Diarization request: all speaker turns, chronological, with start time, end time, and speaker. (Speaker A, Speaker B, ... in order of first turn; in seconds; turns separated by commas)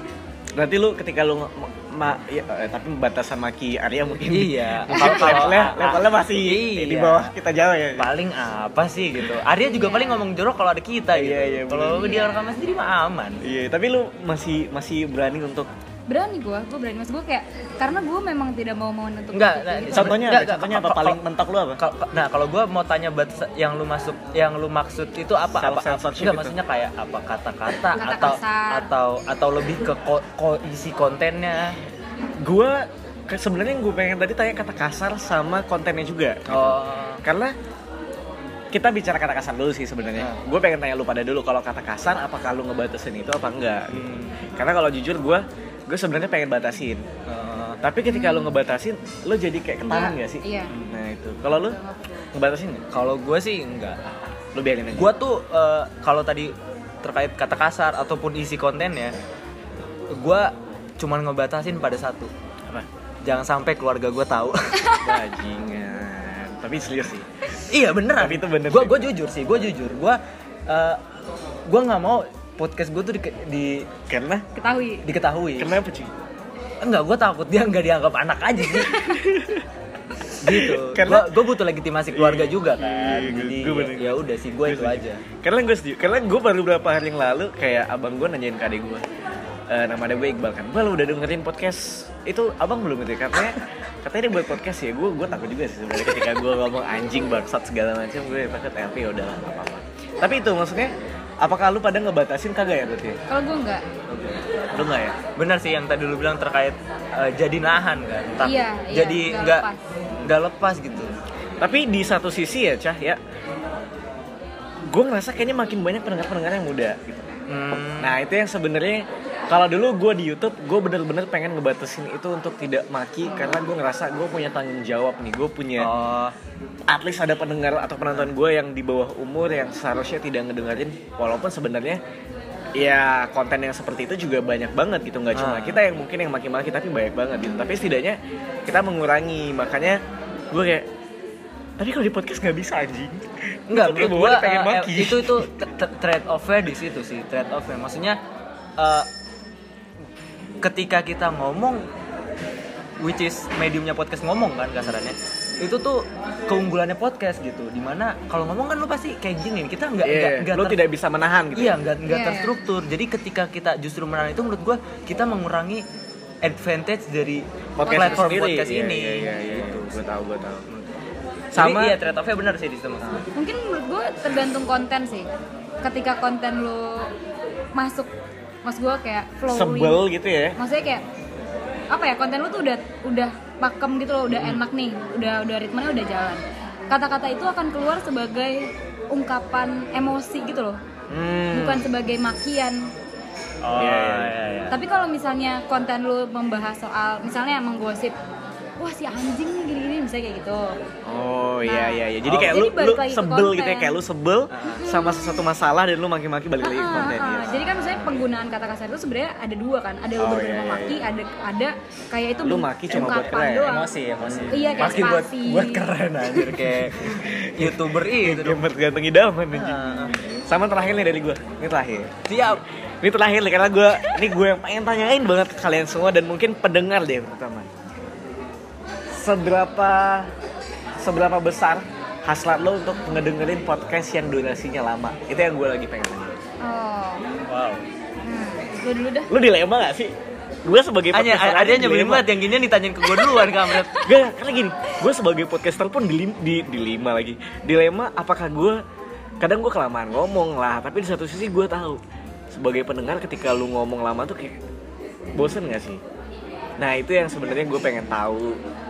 Speaker A: 0.5-8.1, Speaker B: 4.2-7.3, Speaker C: 4.9-5.5, Speaker B: 8.0-13.4, Speaker C: 9.6-10.2, Speaker A: 11.1-12.2, Speaker C: 11.9-12.4, Speaker A: 13.4-15.7, Speaker C: 16.1-20.2, Speaker B: 19.3-21.2, Speaker A: 19.9-21.8, Speaker B: 21.8-31.8, Speaker A: 25.6-26.5, Speaker C: 27.9-28.9, Speaker A: 32.4-37.5, Speaker B: 36.5-37.2, Speaker A: 38.7-47.0, Speaker B: 43.9-44.3, Speaker B: 47.3-47.8, Speaker A: 47.8-51.8, Speaker C: 48.1-48.5, Speaker C: 49.8-50.7, Speaker C: 51.7-52.3, Speaker A: 52.3-52.8, Speaker B: 52.9-54.0, Speaker A: 54.5-55.1, Speaker B: 54.9-59.1, Speaker B: 60.1-62.3, Speaker B: 63.2-65.0, Speaker C: 64.8-65.1, Speaker A: 65.0-67.4, Speaker B: 67.6-71.0, Speaker A: 68.2-69.1, Speaker B: 71.7-73.9, Speaker A: 74.1-74.4, Speaker C: 74.5-75.0, Speaker B: 75.0-75.7, Speaker A: 75.6-76.1, Speaker B: 76.8-79.2, Speaker A: 79.0-79.7, Speaker B: 80.3-85.2, Speaker A: 80.4-81.3, Speaker A: 82.1-89.1, Speaker A: 89.7-103.2, Speaker C: 103.3-103.8, Speaker B: 104.1-104.4, Speaker A: 104.7-105.2, Speaker B: 105.3-109.6, Speaker C: 108.4-109.8, Speaker B: 110.2-111.1, Speaker A: 111.6-113.2, Speaker A: 114.9-117.3, Speaker B: 117.5-118.1, Speaker A: 118.0-125.9, Speaker B: 125.8-126.3, Speaker A: 126.9-132.0, Speaker A: 132.8-140.9, Speaker B: 135.3-135.8, Speaker A: 141.8-145.5, Speaker B: 143.7-148.2, Speaker B: 148.8-149.1, Speaker B: 150.6-151.8, Speaker B: 153.0-160.8, Speaker A: 160.0-161.8, Speaker B: 161.5-165.8, Speaker C: 162.1-162.5, Speaker B: 166.4-170.1, Speaker A: 167.8-170.6, Speaker C: 167.8-168.2, Speaker B: 170.7-170.9, Speaker A: 171.5-172.0, Speaker B: 171.5-173.2, Speaker C: 173.3-175.3, Speaker C: 175.8-177.1, Speaker C: 177.8-178.1, Speaker C: 178.6-180.0, Speaker A: 179.5-180.6, Speaker C: 180.6-181.0, Speaker C: 181.9-190.8, Speaker A: 184.3-184.6, Speaker A: 191.1-191.9, Speaker C: 191.5-192.9, Speaker B: 193.6-194.7, Speaker A: 193.8-194.3, Speaker C: 194.7-198.1, Speaker C: 198.8-200.8, Speaker A: 201.1-208.2, Speaker C: 201.6-203.9, Speaker B: 204.5-204.8, Speaker C: 204.8-205.4, Speaker C: 206.6-213.9, Speaker A: 210.2-211.0, Speaker A: 212.4-215.2, Speaker B: 213.7-218.6, Speaker C: 214.5-215.8, Speaker A: 215.9-222.2, Speaker B: 219.5-220.2, Speaker B: 222.3-222.6, Speaker A: 223.0-227.7, Speaker A: 229.1-230.3, Speaker A: 231.0-236.4, Speaker C: 236.6-237.4, Speaker B: 237.5-237.8, Speaker C: 238.2-239.3, Speaker A: 239.3-240.1, Speaker A: 240.6-242.4, Speaker B: 241.1-244.1, Speaker C: 243.0-244.1, Speaker A: 244.0-248.8, Speaker A: 249.4-254.6, Speaker A: 255.3-256.0, Speaker A: 256.8-258.6